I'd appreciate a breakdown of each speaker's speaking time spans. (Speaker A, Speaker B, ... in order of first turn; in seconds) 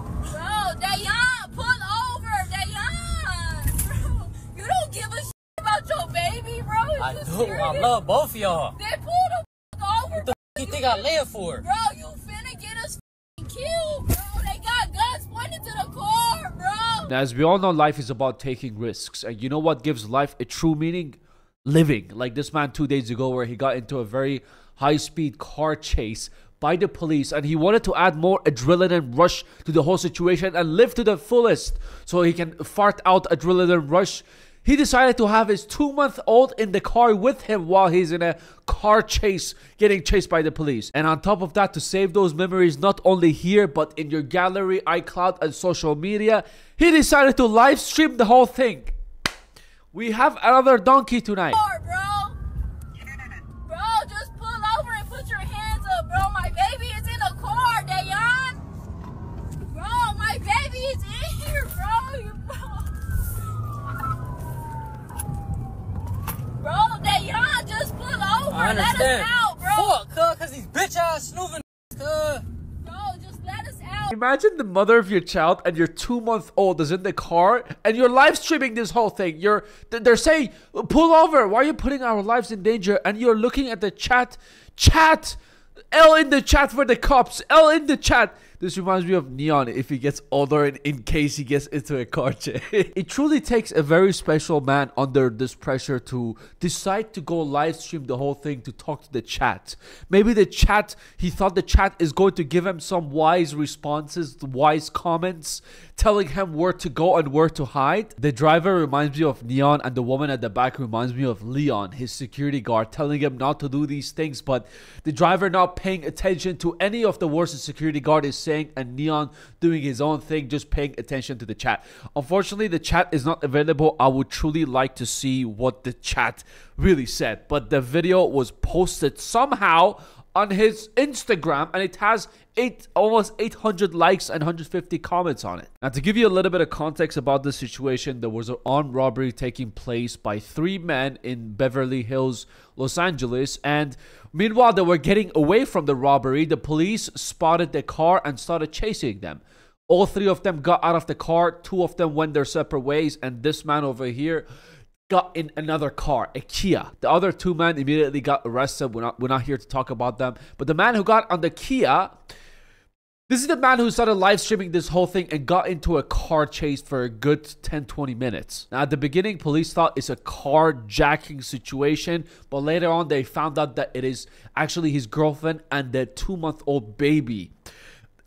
Speaker A: 0.2-7.9, 8.7-17.1, 51.5-52.4, 53.6-58.6, 59.6-62.9, 66.6-69.9, 72.8-74.1
Speaker B: 7.0-8.8, 10.2-11.6, 68.5-72.5
Speaker C: 17.0-49.0, 49.9-51.6, 74.1-85.4, 85.9-154.4, 155.1-162.1, 163.3-177.5